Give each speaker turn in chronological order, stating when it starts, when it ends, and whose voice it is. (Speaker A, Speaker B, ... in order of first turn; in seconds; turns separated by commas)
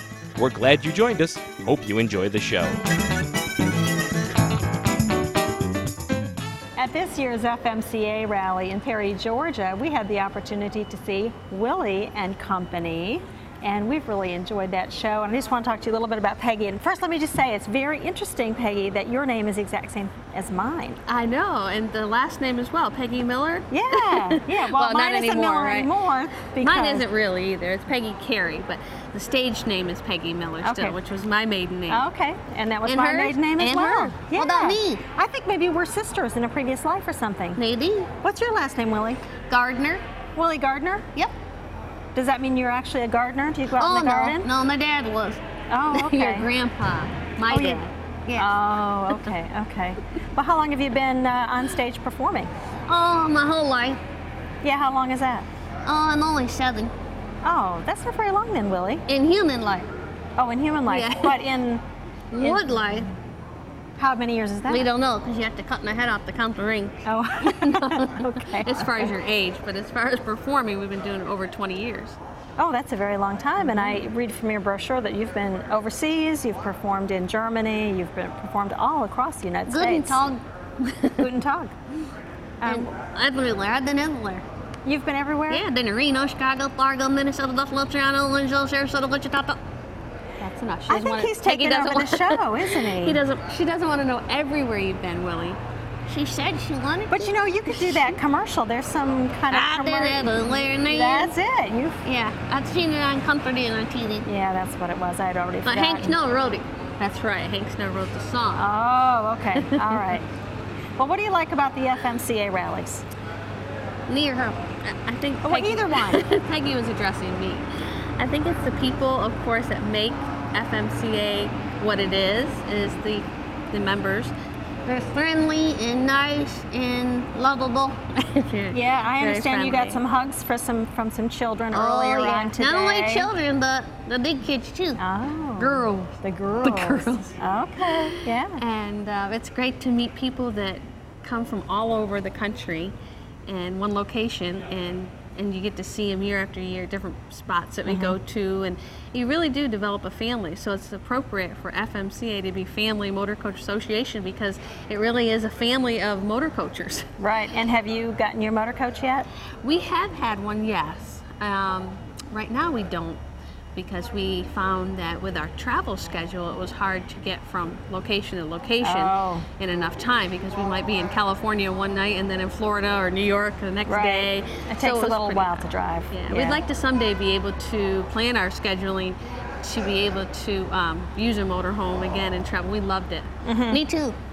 Speaker A: 0.3-2.8, Speaker B: 6.8-21.0, Speaker C: 21.1-25.9, Speaker B: 23.7-27.1, Speaker C: 26.6-32.0, Speaker B: 30.6-31.0, Speaker B: 31.9-37.6, Speaker C: 32.8-35.0, Speaker C: 37.6-38.0, Speaker B: 38.2-39.2, Speaker C: 39.5-40.0, Speaker B: 40.4-41.0, Speaker B: 42.1-44.5, Speaker C: 43.8-49.3, Speaker B: 45.7-46.5, Speaker B: 47.5-47.8, Speaker B: 48.3-52.5, Speaker C: 52.9-54.0, Speaker B: 54.6-55.5, Speaker C: 55.8-56.9, Speaker B: 57.4-59.0, Speaker C: 59.1-59.9, Speaker B: 60.4-61.8, Speaker C: 60.9-61.3, Speaker C: 62.3-62.7, Speaker B: 62.4-62.6, Speaker B: 64.0-64.9, Speaker C: 64.8-66.9, Speaker B: 67.0-69.1, Speaker C: 67.5-72.2, Speaker B: 72.6-80.2, Speaker C: 80.2-81.1, Speaker B: 81.2-81.7, Speaker B: 82.6-82.9, Speaker C: 82.7-84.4, Speaker B: 84.8-85.7, Speaker C: 85.5-89.6, Speaker C: 90.4-97.2, Speaker B: 90.9-93.2, Speaker B: 97.1-102.0, Speaker C: 97.7-98.1, Speaker C: 99.5-101.2, Speaker C: 102.0-104.2, Speaker B: 104.2-106.1, Speaker C: 105.6-108.6, Speaker B: 108.5-110.2, Speaker B: 111.0-113.0, Speaker C: 114.1-117.7, Speaker B: 115.4-116.2, Speaker C: 118.2-124.3, Speaker C: 124.8-130.0, Speaker B: 128.7-133.3, Speaker C: 131.8-135.0, Speaker B: 135.0-138.6, Speaker C: 135.6-137.3, Speaker C: 138.6-142.9, Speaker C: 143.5-157.0, Speaker B: 147.8-148.2, Speaker B: 157.2-159.3, Speaker C: 159.6-163.2, Speaker C: 163.7-184.1, Speaker B: 168.8-169.4, Speaker B: 173.8-176.6, Speaker B: 183.4-183.8